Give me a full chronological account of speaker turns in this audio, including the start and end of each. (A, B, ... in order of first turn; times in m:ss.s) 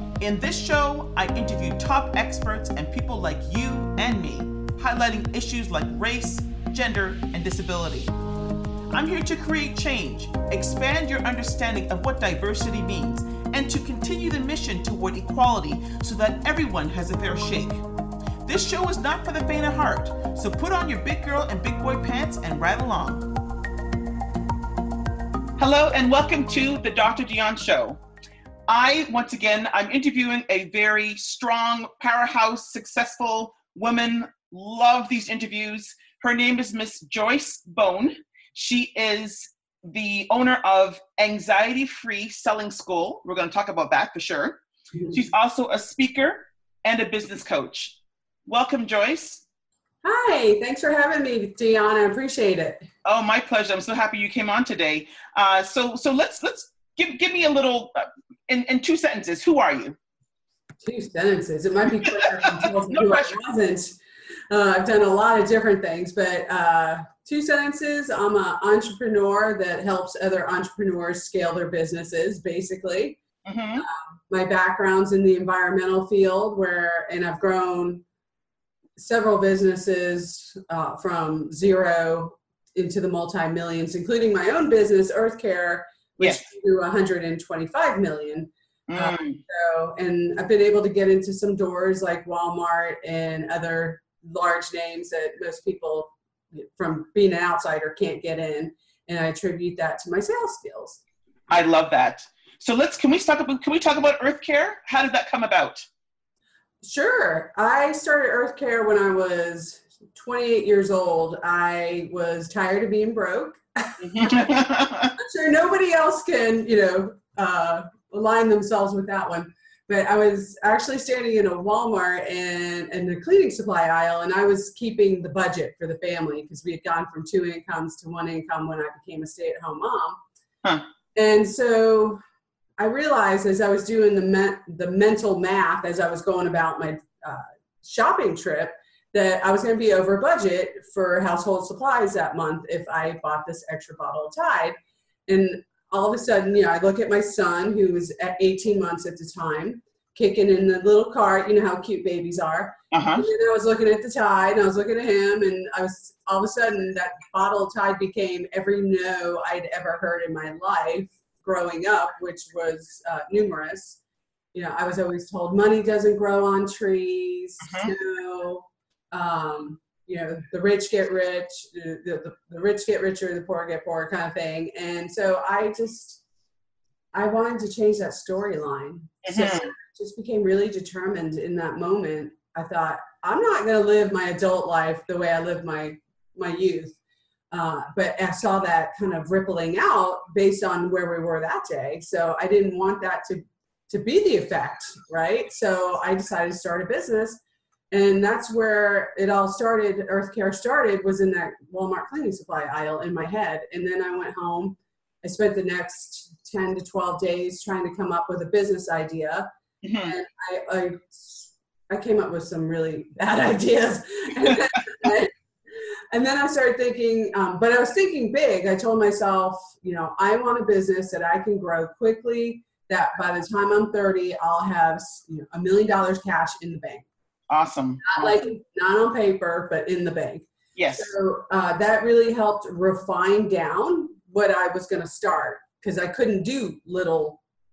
0:00.2-0:08.1 A
0:08.9-0:17.8 A
0:18.4-0:23.2 A
0:25.6-0:28.0 A
0:28.7-0:49.4 A
0:50.0-0:52.8 B
0:53.0-1:00.0 A
1:00.8-1:04.0 B
1:02.0-1:03.3 A
1:04.5-1:13.2 B
1:13.4-1:13.8 A
1:13.8-1:18.0 B
1:19.0-1:41.0 B
1:28.9-1:29.4 A
1:41.5-1:45.8 A
1:46.8-1:54.4 B
1:54.0-1:55.1 A
1:55.2-2:10.2 B
2:11.1-2:12.2 B
2:12.8-2:24.8 B
2:25.3-2:44.0 B
2:32.9-2:33.3 A
2:44.5-2:56.2 B
2:47.6-2:47.9 A
2:57.1-3:07.0 B
2:59.2-2:59.7 A
3:07.5-3:17.4 B
3:17.9-3:29.5 B
3:29.8-3:30.2 A
3:30.0-3:47.0 B
3:47.5-3:48.4 A
3:48.0-3:57.4 B
3:50.7-3:51.1 A